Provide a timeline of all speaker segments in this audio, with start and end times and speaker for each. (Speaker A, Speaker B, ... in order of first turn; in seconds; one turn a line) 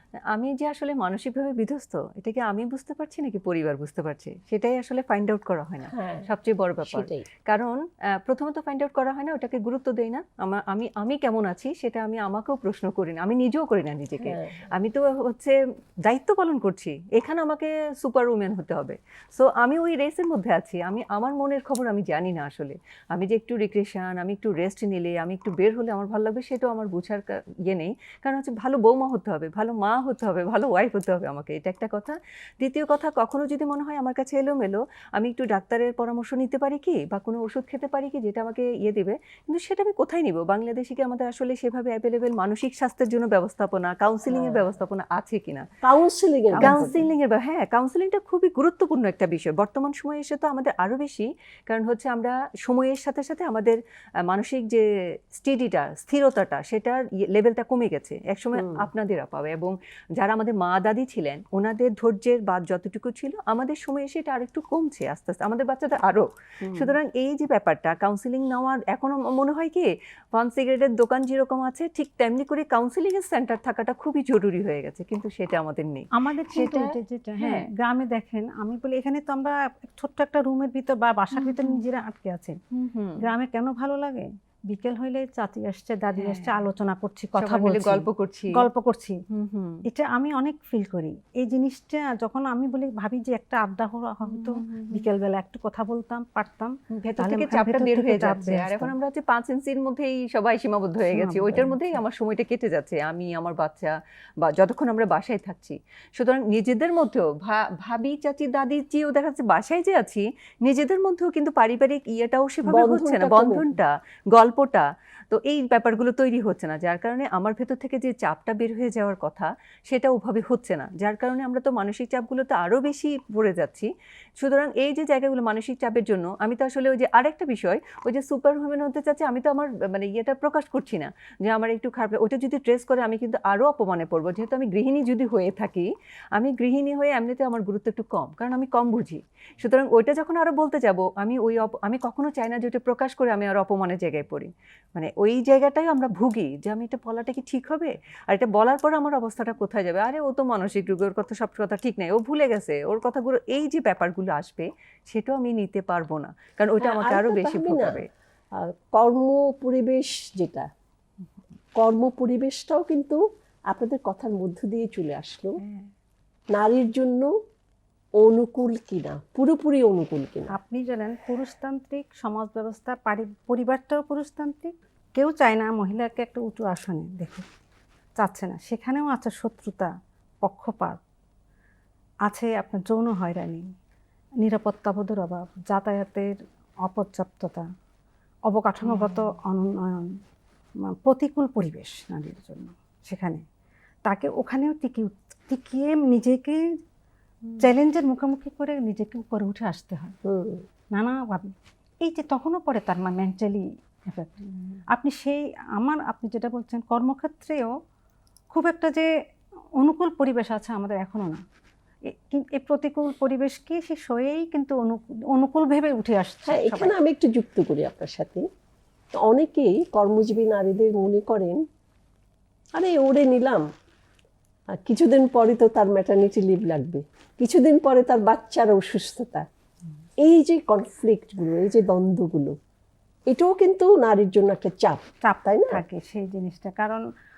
Speaker A: 0.3-45.7
Speaker B: 5.9-6.3
Speaker B: 6.8-7.2
Speaker B: 14.2-14.6
Speaker B: 44.3-44.6
Speaker B: 45.8-47.0
Speaker C: 46.6-47.0
Speaker A: 46.6-77.7
Speaker B: 58.5-58.9
Speaker B: 66.6-67.0
Speaker C: 76.1-82.6
Speaker A: 81.3-81.8
Speaker A: 82.7-83.2
Speaker C: 83.2-89.2
Speaker A: 86.2-86.6
Speaker A: 87.4-88.6
Speaker A: 89.3-89.8
Speaker C: 89.9-98.9
Speaker A: 94.2-95.1
Speaker A: 96.9-158.1
Speaker C: 101.1-102.0
Speaker B: 112.7-113.8
Speaker B: 156.8-158.0
Speaker B: 158.5-160.7
Speaker B: 161.8-165.6
Speaker A: 165.6-165.9
Speaker B: 166.5-167.3
Speaker B: 168.2-170.5
Speaker C: 170.5-177.5
Speaker C: 178.2-181.0
Speaker C: 182.2-183.7
Speaker C: 184.4-187.7
Speaker C: 188.5-190.2
Speaker A: 188.8-189.3
Speaker C: 190.8-193.4
Speaker C: 194.1-196.8
Speaker C: 197.6-200.2
Speaker B: 200.2-200.6
Speaker C: 200.9-207.7
Speaker C: 208.5-209.1
Speaker C: 209.8-211.4
Speaker C: 212.1-216.9
Speaker B: 216.4-218.5
Speaker B: 219.1-221.6
Speaker B: 222.8-223.7
Speaker B: 224.7-229.5
Speaker B: 230.2-232.6
Speaker B: 233.3-235.8
Speaker C: 235.2-237.0